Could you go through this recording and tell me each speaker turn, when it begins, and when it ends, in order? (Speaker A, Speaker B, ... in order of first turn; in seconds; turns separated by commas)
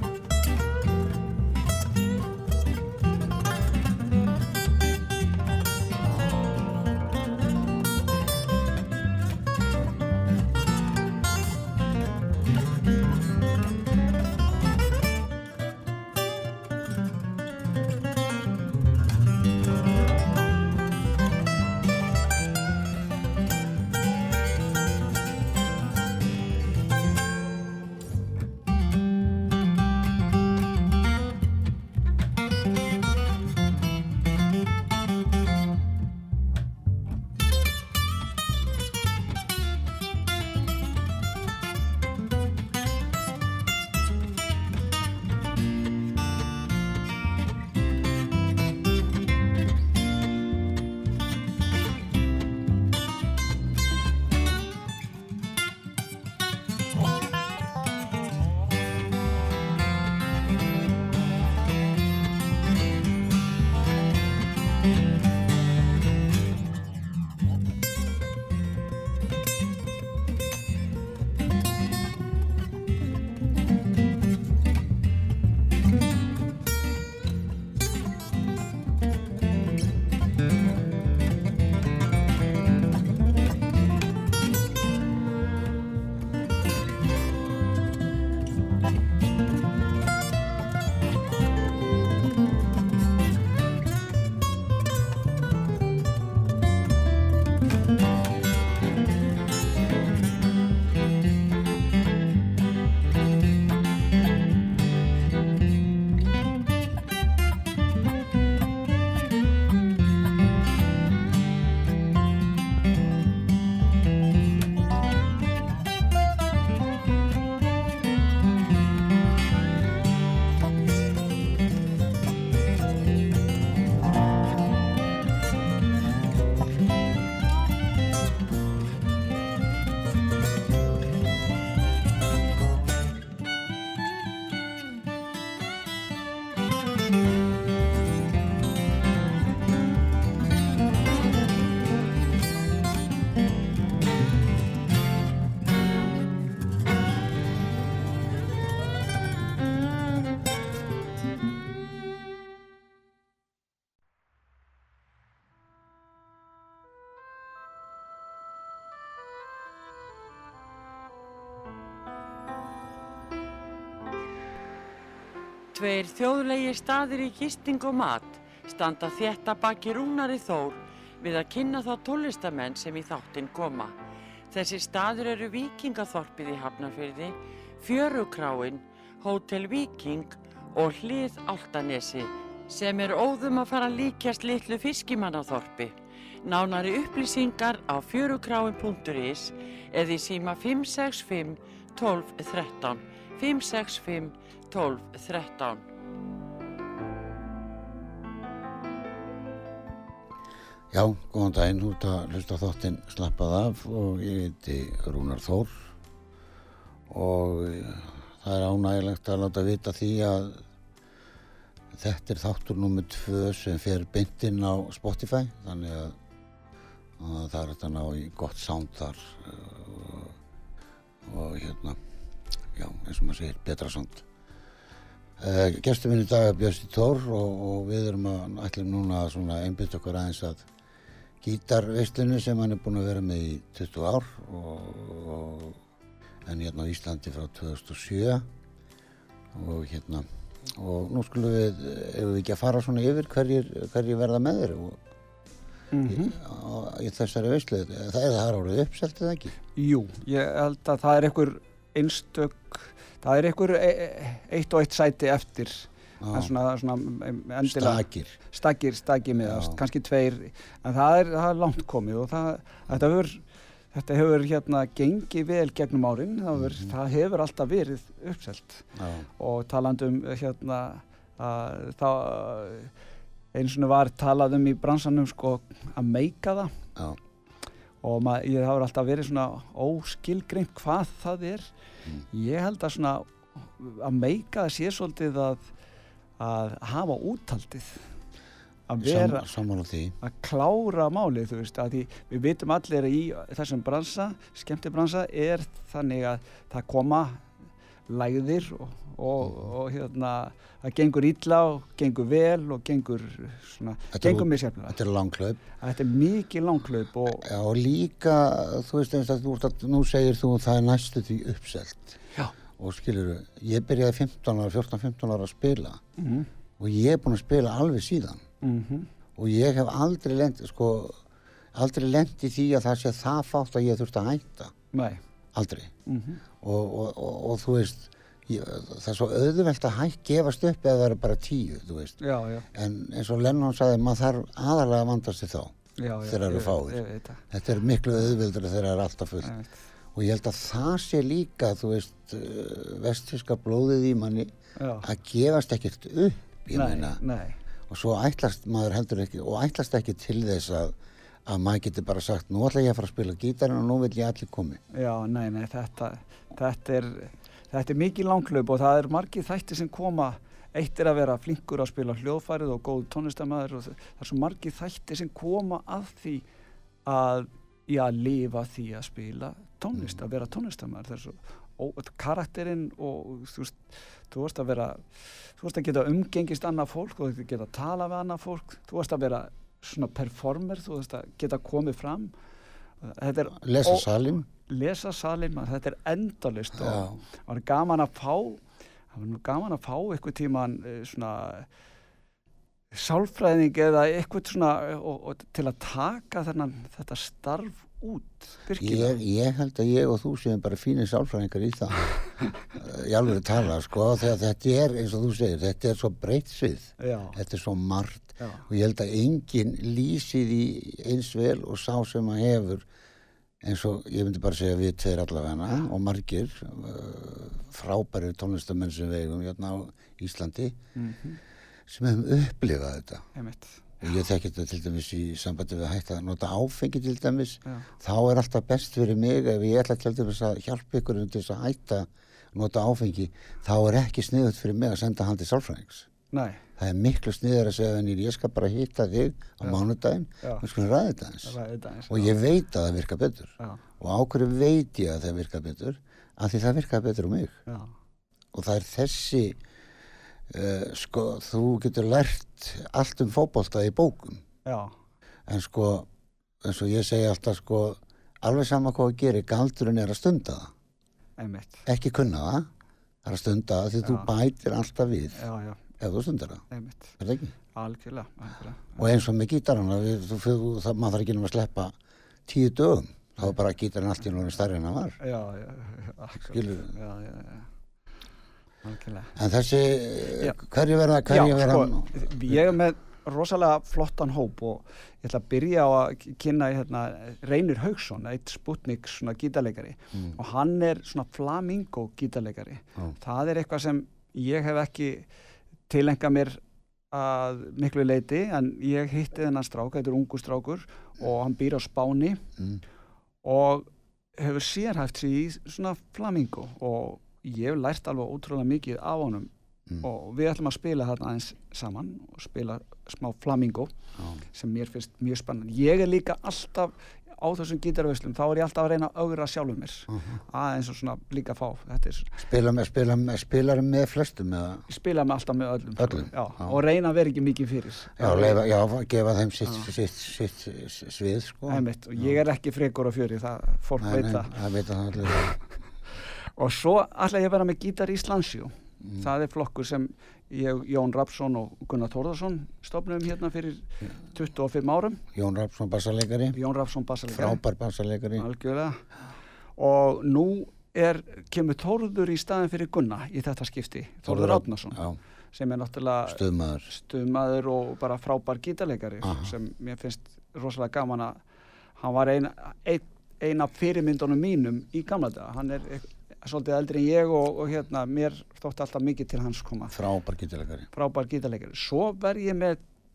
Speaker A: 165.7-173.9, Speaker A: 174.5-195.8, Speaker B: 200.9-205.9, Speaker B: 207.1-210.6, Speaker B: 211.9-216.2, Speaker B: 217.2-220.3, Speaker B: 221.2-222.0, Speaker B: 222.7-224.2, Speaker B: 225.4-230.7, Speaker B: 231.4-235.8, Speaker B: 236.4-238.4, Speaker B: 239.5-245.0, Speaker C: 245.9-246.4, Speaker B: 246.1-249.6, Speaker C: 249.8-272.9, Speaker B: 256.2-256.5, Speaker B: 257.6-258.4, Speaker B: 259.4-259.8, Speaker B: 266.5-266.9, Speaker B: 268.9-269.3, Speaker C: 273.5-276.7, Speaker C: 278.0-281.7, Speaker C: 282.3-285.6, Speaker C: 286.4-288.0, Speaker C: 288.9-289.4, Speaker B: 289.0-290.2, Speaker C: 290.2-297.4, Speaker C: 298.1-305.0, Speaker B: 304.1-305.6, Speaker C: 305.8-307.4, Speaker B: 307.3-312.2, Speaker B: 312.7-316.0, Speaker C: 316.2-316.5, Speaker B: 316.8-318.4, Speaker C: 318.6-319.1, Speaker B: 319.4-321.2, Speaker B: 321.7-324.7, Speaker C: 324.9-325.2, Speaker B: 325.5-325.9, Speaker C: 326.1-326.4, Speaker B: 326.6-332.2, Speaker C: 332.2-332.7, Speaker B: 332.7-339.5, Speaker C: 336.0-337.4, Speaker C: 339.4-339.7, Speaker B: 340.1-344.5, Speaker C: 344.8-345.1, Speaker B: 345.0-347.2, Speaker C: 346.7-347.6, Speaker B: 347.9-354.8, Speaker C: 354.9-366.4, Speaker C: 367.1-382.3, Speaker C: 383.0-384.1, Speaker B: 383.6-384.5, Speaker C: 384.6-388.6, Speaker B: 386.8-387.2, Speaker C: 389.1-391.7, Speaker C: 392.9-399.2, Speaker B: 398.8-412.9, Speaker C: 407.0-407.4, Speaker C: 408.4-408.6, Speaker B: 413.6-420.8, Speaker C: 420.9-421.4, Speaker B: 421.9-423.2, Speaker C: 423.3-423.8, Speaker B: 424.0-436.1, Speaker C: 436.3-436.6, Speaker B: 436.8-441.6, Speaker C: 441.4-442.3, Speaker B: 442.1-447.6, Speaker C: 447.7-447.9, Speaker B: 448.5-449.6, Speaker B: 450.5-454.4, Speaker C: 454.6-454.9, Speaker B: 455.5-456.1, Speaker B: 456.6-460.7, Speaker C: 461.4-461.9, Speaker B: 461.9-462.7, Speaker B: 463.2-465.4, Speaker C: 464.0-464.3, Speaker C: 465.3-465.8, Speaker B: 466.0-466.6, Speaker C: 466.7-467.1, Speaker B: 467.2-467.5, Speaker C: 467.7-469.1, Speaker B: 469.0-471.9, Speaker B: 472.5-475.2, Speaker C: 475.2-477.7, Speaker B: 476.4-476.9, Speaker C: 478.8-479.3, Speaker B: 479.3-482.7, Speaker C: 481.3-495.3, Speaker C: 495.9-496.6, Speaker C: 497.1-502.4, Speaker C: 503.4-509.5, Speaker C: 510.0-513.9, Speaker B: 514.2-514.4, Speaker C: 514.5-522.4, Speaker B: 520.1-520.4, Speaker B: 522.4-524.8, Speaker C: 524.9-528.6, Speaker B: 526.0-526.8, Speaker B: 528.2-532.4, Speaker C: 529.6-529.9, Speaker C: 531.7-534.5, Speaker B: 534.0-535.6, Speaker C: 535.2-535.5, Speaker C: 536.6-545.2, Speaker B: 539.0-539.3, Speaker B: 545.3-546.6, Speaker C: 546.5-547.6, Speaker B: 547.3-548.5, Speaker C: 548.4-549.0, Speaker C: 549.8-555.0, Speaker B: 554.2-555.2, Speaker C: 555.5-561.4, Speaker B: 556.2-556.9, Speaker B: 559.2-559.5, Speaker C: 562.0-569.9, Speaker B: 569.9-570.9, Speaker C: 570.9-572.8